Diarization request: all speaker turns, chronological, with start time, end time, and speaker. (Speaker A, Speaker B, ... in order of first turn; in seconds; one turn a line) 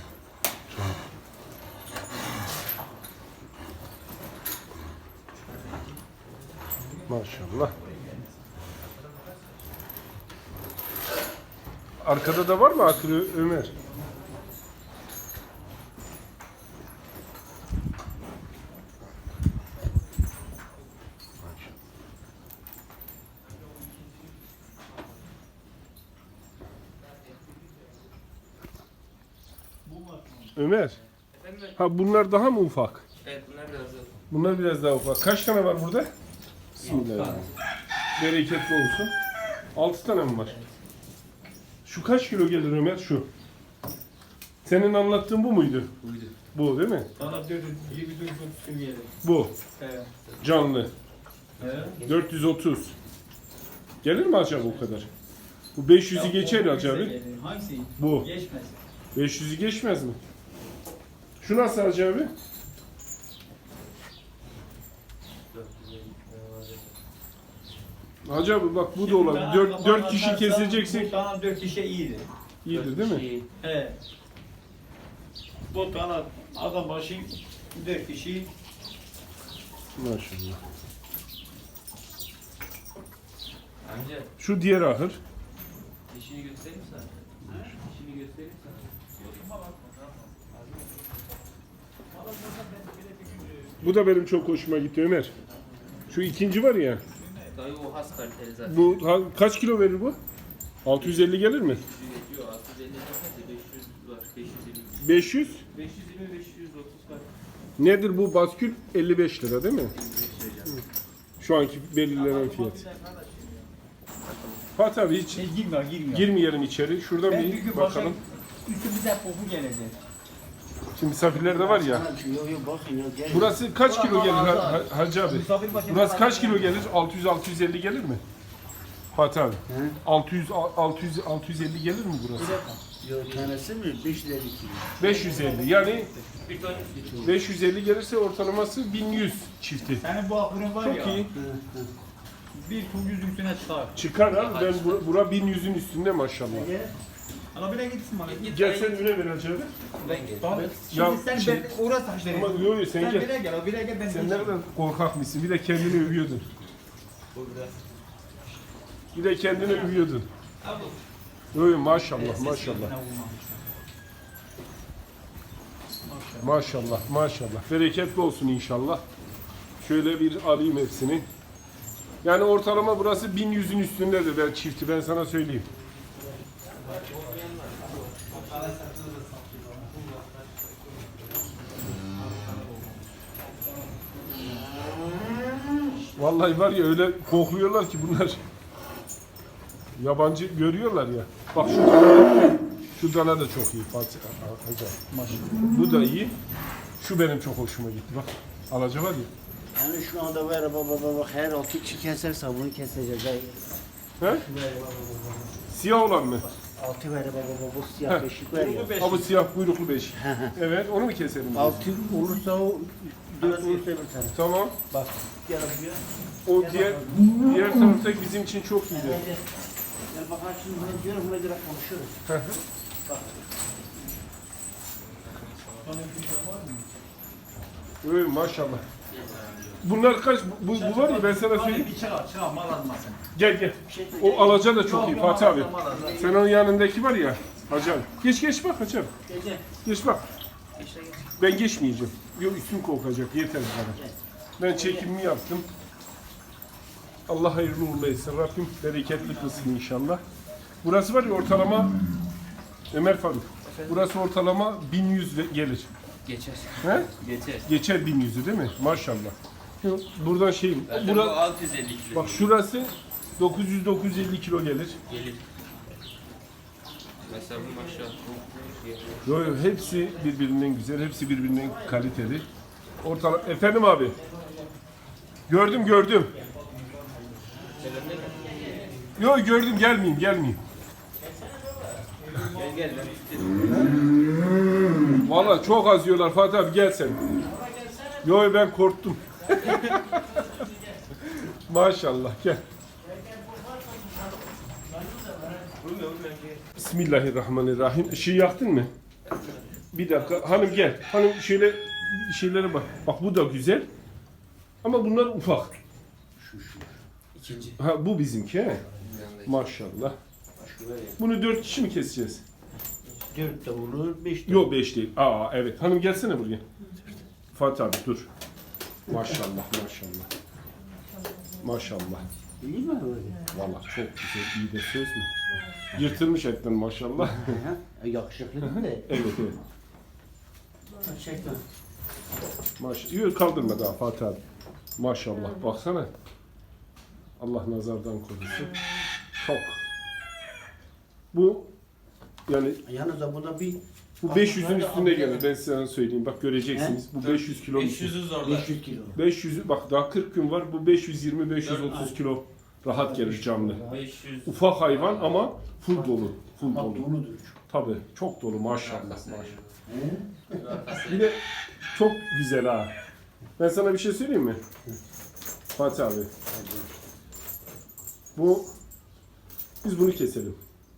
Speaker A: 6.8-8.2
Speaker B: 7.1-7.7
Speaker B: 12.0-13.7
Speaker A: 29.8-30.6
Speaker B: 30.6-31.0
Speaker C: 31.3-31.8
Speaker B: 31.8-33.0
Speaker C: 33.2-34.1
Speaker B: 34.3-36.1
Speaker B: 36.7-37.5
Speaker C: 36.8-37.5
Speaker B: 38.2-39.1
Speaker B: 39.7-40.5
Speaker B: 41.8-43.3
Speaker B: 44.6-45.9
Speaker C: 46.0-46.4
Speaker B: 46.5-47.1
Speaker A: 47.2-49.2
Speaker B: 49.2-49.5
Speaker A: 49.8-50.1
Speaker B: 50.4-50.9
Speaker A: 51.6-52.0
Speaker B: 52.0-52.9
Speaker B: 54.0-55.1
Speaker B: 55.7-57.1
Speaker A: 56.1-58.8
Speaker B: 58.0-58.3
Speaker B: 59.1-60.2
Speaker B: 61.4-62.3
Speaker C: 65.5-66.9
Speaker B: 68.2-71.1
Speaker A: 69.0-72.3
Speaker B: 72.6-73.2
Speaker C: 72.7-73.5
Speaker A: 73.6-74.0
Speaker A: 75.7-78.5
Speaker B: 80.0-80.6
Speaker C: 83.8-84.3
Speaker B: 84.4-85.2
Speaker C: 86.1-89.5
Speaker A: 89.2-90.5
Speaker A: 92.1-93.9
Speaker B: 93.8-95.3
Speaker B: 96.1-97.0
Speaker A: 97.1-97.6
Speaker C: 97.5-99.0
Speaker B: 98.7-100.2
Speaker B: 100.8-101.8
Speaker C: 100.9-107.3
Speaker B: 105.0-105.6
Speaker B: 107.8-110.0
Speaker C: 109.9-110.8
Speaker B: 111.4-112.8
Speaker A: 112.1-113.7
Speaker C: 114.3-114.6
Speaker B: 114.8-115.5
Speaker A: 115.3-116.3
Speaker B: 116.1-118.2
Speaker A: 117.2-120.0
Speaker B: 120.9-122.0
Speaker D: 121.3-123.6
Speaker B: 123.3-128.2
Speaker A: 123.8-126.8
Speaker B: 129.1-132.6
Speaker D: 129.7-130.0
Speaker A: 132.3-132.8
Speaker D: 133.0-135.9
Speaker B: 135.0-136.1
Speaker A: 135.1-135.8
Speaker C: 136.4-137.3
Speaker D: 137.0-137.3
Speaker B: 137.2-140.0
Speaker A: 140.0-141.3
Speaker B: 140.8-141.3
Speaker D: 141.3-141.9
Speaker A: 142.5-143.9
Speaker B: 143.9-146.7
Speaker C: 144.2-145.1
Speaker D: 146.5-146.9
Speaker A: 147.5-148.5
Speaker C: 148.2-149.0
Speaker B: 148.5-149.7
Speaker C: 150.0-150.7
Speaker A: 150.0-154.6
Speaker B: 150.9-151.7
Speaker B: 152.3-153.3
Speaker B: 154.1-156.4
Speaker C: 157.3-157.9
Speaker B: 159.1-160.3
Speaker C: 159.6-159.9
Speaker C: 160.6-161.0
Speaker B: 161.5-162.9
Speaker A: 162.0-163.6
Speaker A: 165.9-167.0
Speaker B: 166.4-169.0
Speaker B: 169.8-171.2
Speaker B: 172.2-175.7
Speaker C: 176.7-178.8
Speaker A: 176.8-177.3
Speaker A: 178.2-180.0
Speaker C: 179.9-181.3
Speaker C: 182.1-182.9
Speaker B: 186.1-188.4
Speaker B: 190.0-195.0
Speaker A: 195.1-195.6
Speaker B: 195.6-196.3
Speaker B: 197.0-199.3
Speaker D: 199.7-205.6
Speaker B: 205.7-206.5
Speaker D: 206.6-209.0
Speaker A: 208.5-209.3
Speaker B: 209.0-211.9
Speaker D: 210.1-210.6
Speaker D: 211.5-214.4
Speaker A: 213.4-213.8
Speaker B: 213.6-214.8
Speaker D: 214.9-216.0
Speaker B: 216.4-219.2
Speaker D: 216.6-217.4
Speaker D: 218.9-219.4
Speaker D: 220.1-222.2
Speaker B: 222.3-222.6
Speaker D: 223.1-223.3
Speaker C: 225.0-226.0
Speaker A: 225.8-226.9
Speaker B: 228.0-228.8
Speaker C: 229.1-229.8
Speaker B: 229.8-231.9
Speaker A: 230.7-233.2
Speaker B: 233.3-239.1
Speaker D: 233.8-234.8
Speaker A: 234.7-236.2
Speaker D: 235.8-236.4
Speaker D: 239.3-239.6
Speaker B: 239.8-240.2
Speaker C: 240.8-241.3
Speaker B: 241.4-244.0
Speaker B: 244.6-245.7
Speaker D: 244.7-245.1
Speaker B: 247.3-250.2
Speaker A: 249.1-249.7
Speaker B: 250.8-251.9
Speaker B: 252.9-255.9
Speaker C: 253.6-254.1
Speaker C: 256.2-257.7
Speaker B: 256.8-257.1
Speaker B: 257.6-261.5
Speaker C: 260.9-262.5
Speaker B: 262.1-265.0
Speaker C: 265.1-265.4
Speaker C: 267.2-269.4
Speaker D: 267.3-268.1
Speaker B: 269.2-272.4
Speaker D: 269.4-270.3
Speaker D: 271.5-272.1
Speaker B: 273.0-274.1
Speaker D: 273.4-274.7
Speaker B: 275.5-276.3
Speaker D: 275.9-276.6
Speaker A: 276.4-277.7
Speaker C: 277.8-278.8
Speaker D: 277.9-279.0
Speaker B: 279.2-280.6
Speaker D: 281.2-282.1
Speaker A: 282.2-283.1
Speaker C: 282.5-284.0
Speaker B: 285.1-287.2
Speaker D: 287.4-288.4
Speaker B: 288.2-290.3
Speaker D: 289.4-291.0
Speaker C: 289.6-290.0
Speaker B: 291.2-292.6
Speaker D: 293.0-295.8
Speaker C: 295.8-296.6
Speaker B: 296.7-298.9
Speaker C: 299.2-301.0
Speaker B: 299.9-303.9
Speaker B: 304.8-305.8
Speaker D: 306.4-307.0
Speaker C: 307.3-307.8
Speaker B: 307.8-308.8
Speaker D: 308.9-309.2
Speaker C: 309.0-309.8
Speaker B: 309.4-310.1
Speaker D: 310.6-311.2
Speaker B: 311.2-312.4
Speaker D: 313.3-314.7
Speaker B: 314.5-316.6
Speaker B: 317.5-318.3
Speaker B: 319.1-320.3
Speaker B: 321.6-322.3
Speaker D: 322.6-323.5
Speaker B: 323.5-327.6
Speaker D: 327.2-329.2
Speaker B: 328.6-329.6
Speaker D: 331.0-331.6
Speaker B: 332.8-334.4
Speaker B: 335.0-336.1
Speaker B: 337.4-339.8
Speaker B: 341.3-341.7
Speaker B: 342.5-342.8
Speaker D: 342.8-345.4
Speaker B: 344.2-348.2
Speaker D: 346.7-347.0
Speaker C: 347.1-348.8
Speaker D: 348.4-349.2
Speaker B: 349.1-353.8
Speaker C: 351.6-352.1
Speaker D: 352.9-354.0
Speaker C: 353.8-355.6
Speaker B: 354.4-357.1
Speaker D: 355.9-357.6
Speaker B: 357.7-359.6
Speaker C: 358.6-359.8
Speaker D: 359.9-360.6
Speaker C: 360.5-361.4
Speaker B: 361.0-361.4
Speaker B: 361.9-362.9
Speaker B: 363.6-364.6
Speaker B: 365.7-366.3
Speaker D: 366.5-366.9
Speaker B: 368.3-368.7
Speaker B: 369.8-370.6